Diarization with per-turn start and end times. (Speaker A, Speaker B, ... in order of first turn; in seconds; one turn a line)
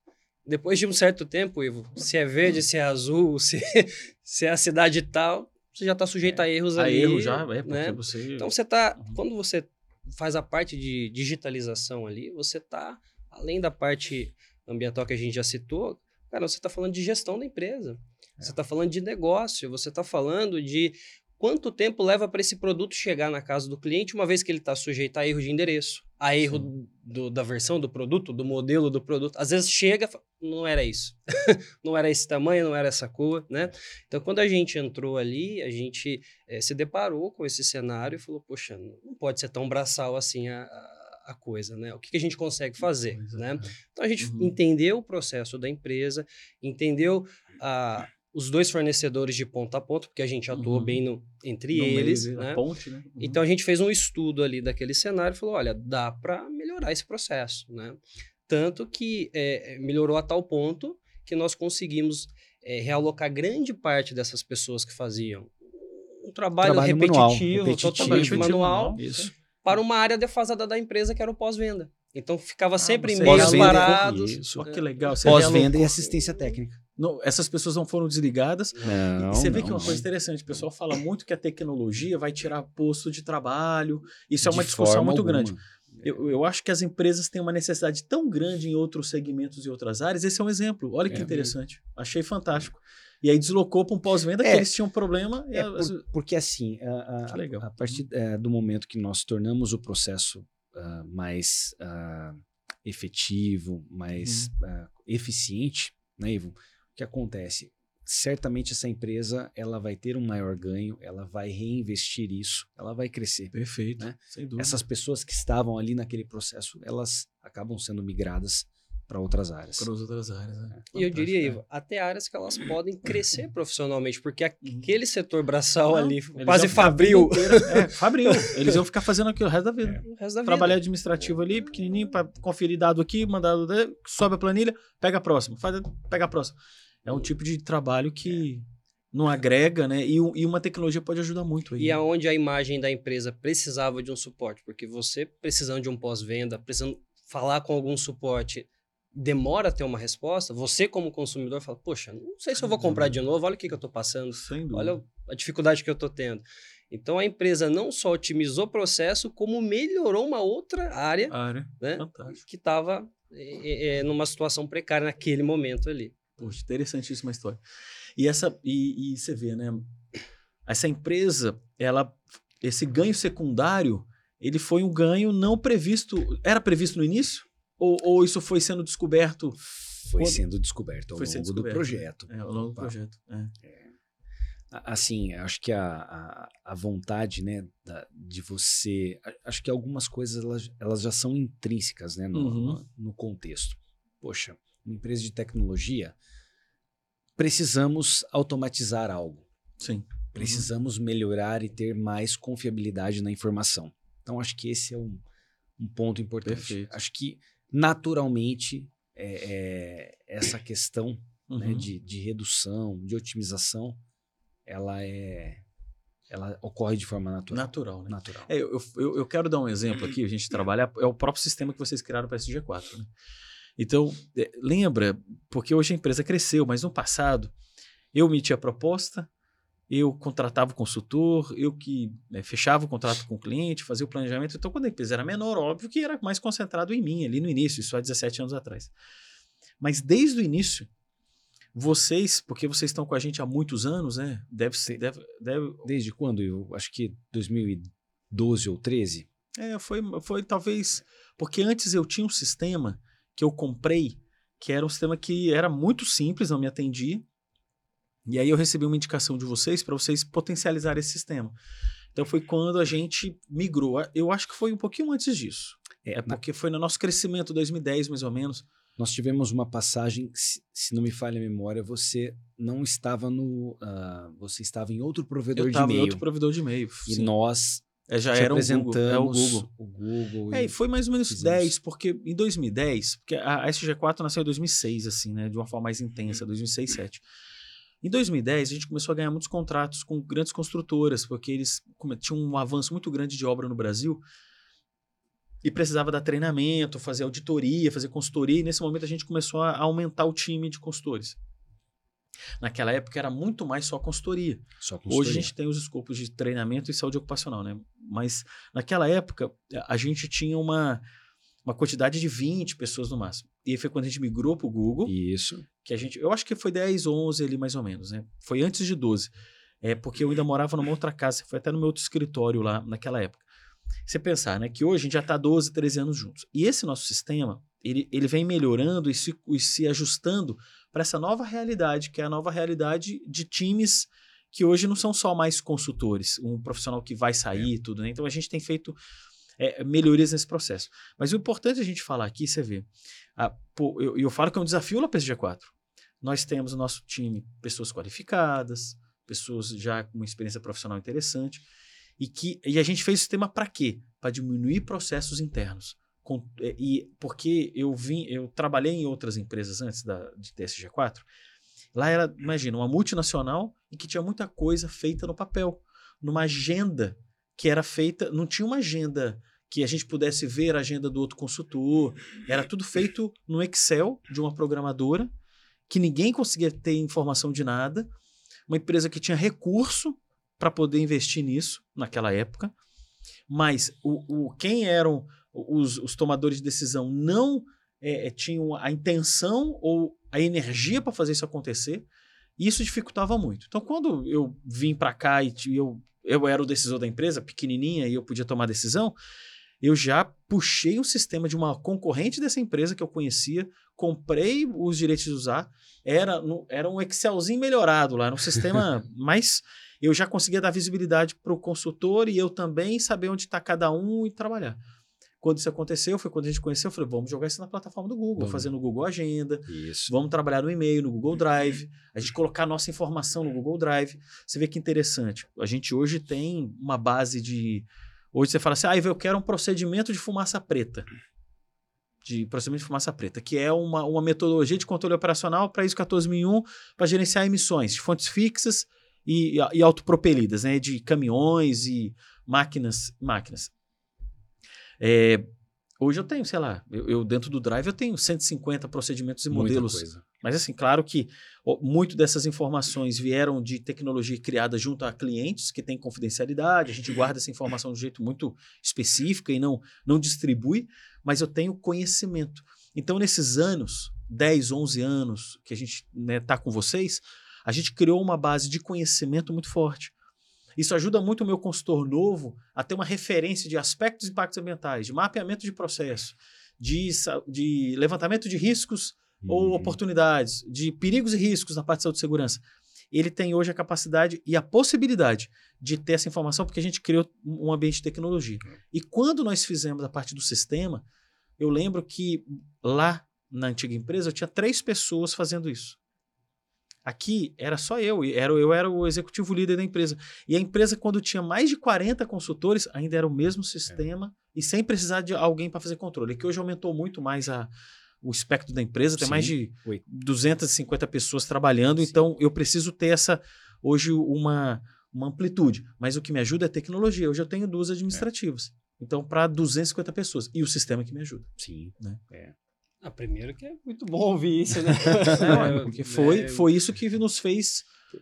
Speaker A: 0.5-52.6
Speaker B: 6.2-9.2
Speaker B: 43.1-43.4
Speaker B: 44.2-44.5
Speaker B: 50.5-51.0
Speaker B: 51.7-53.4
Speaker A: 53.2-69.0
Speaker C: 66.6-69.3
Speaker B: 68.0-69.3
Speaker A: 69.6-75.4
Speaker B: 72.8-76.1
Speaker C: 73.2-74.7
Speaker C: 75.2-76.8
Speaker B: 77.0-96.0
Speaker C: 78.8-80.0
Speaker C: 84.4-86.2
Speaker C: 91.1-91.5
Speaker C: 94.4-94.7
Speaker C: 95.5-119.9
Speaker B: 97.3-98.0
Speaker B: 104.2-104.5
Speaker B: 113.5-114.8
Speaker B: 119.8-121.6
Speaker A: 120.9-128.8
Speaker B: 124.6-124.9
Speaker B: 125.9-142.0
Speaker A: 130.0-130.8
Speaker A: 141.8-166.1
Speaker B: 152.6-153.2
Speaker B: 154.3-155.0
Speaker B: 161.3-162.4
Speaker B: 166.4-167.6
Speaker B: 168.2-169.9
Speaker B: 170.7-179.6
Speaker C: 180.0-182.9
Speaker B: 180.2-180.4
Speaker B: 181.1-183.5
Speaker C: 183.6-183.9
Speaker C: 184.7-196.1
Speaker B: 192.3-192.8
Speaker C: 197.4-199.4
Speaker B: 199.8-200.7
Speaker C: 200.3-205.2
Speaker C: 205.8-214.0
Speaker B: 206.4-206.9
Speaker B: 211.5-211.9
Speaker C: 214.7-215.6
Speaker C: 216.3-218.5
Speaker B: 217.5-223.1
Speaker B: 223.8-227.5
Speaker B: 228.1-229.3
Speaker B: 229.9-238.9
Speaker B: 239.8-240.9
Speaker B: 241.7-245.9
Speaker C: 245.8-249.3
Speaker B: 249.6-257.2
Speaker B: 258.2-261.5
Speaker B: 262.1-268.6
Speaker C: 266.0-266.4
Speaker C: 269.0-276.2
Speaker B: 275.5-277.3
Speaker C: 277.1-280.7
Speaker B: 278.1-279.6
Speaker B: 280.5-287.2
Speaker C: 281.3-281.7
Speaker B: 288.0-294.2
Speaker B: 295.6-301.4
Speaker B: 302.6-311.0
Speaker C: 304.8-305.5
Speaker B: 311.6-315.1
Speaker C: 315.1-315.6
Speaker B: 315.8-323.4
Speaker B: 324.1-339.0
Speaker B: 339.6-351.6
Speaker B: 352.2-361.2
Speaker B: 361.9-375.3
Speaker B: 375.9-378.1
Speaker B: 378.7-382.7
Speaker B: 383.5-392.1
Speaker B: 392.6-399.1
Speaker B: 399.8-414.8
Speaker B: 415.4-431.1
Speaker C: 418.4-418.7
Speaker C: 419.7-420.1
Speaker B: 432.2-443.7
Speaker B: 445.0-445.4
Speaker B: 446.0-470.1
Speaker C: 449.5-450.2
Speaker B: 470.8-491.0
Speaker C: 479.4-480.0
Speaker B: 491.6-496.0
Speaker B: 497.0-507.7
Speaker B: 508.2-521.5
Speaker C: 509.1-510.0
Speaker C: 521.6-522.5
Speaker A: 523.0-526.7
Speaker B: 525.0-527.9
Speaker C: 525.3-525.8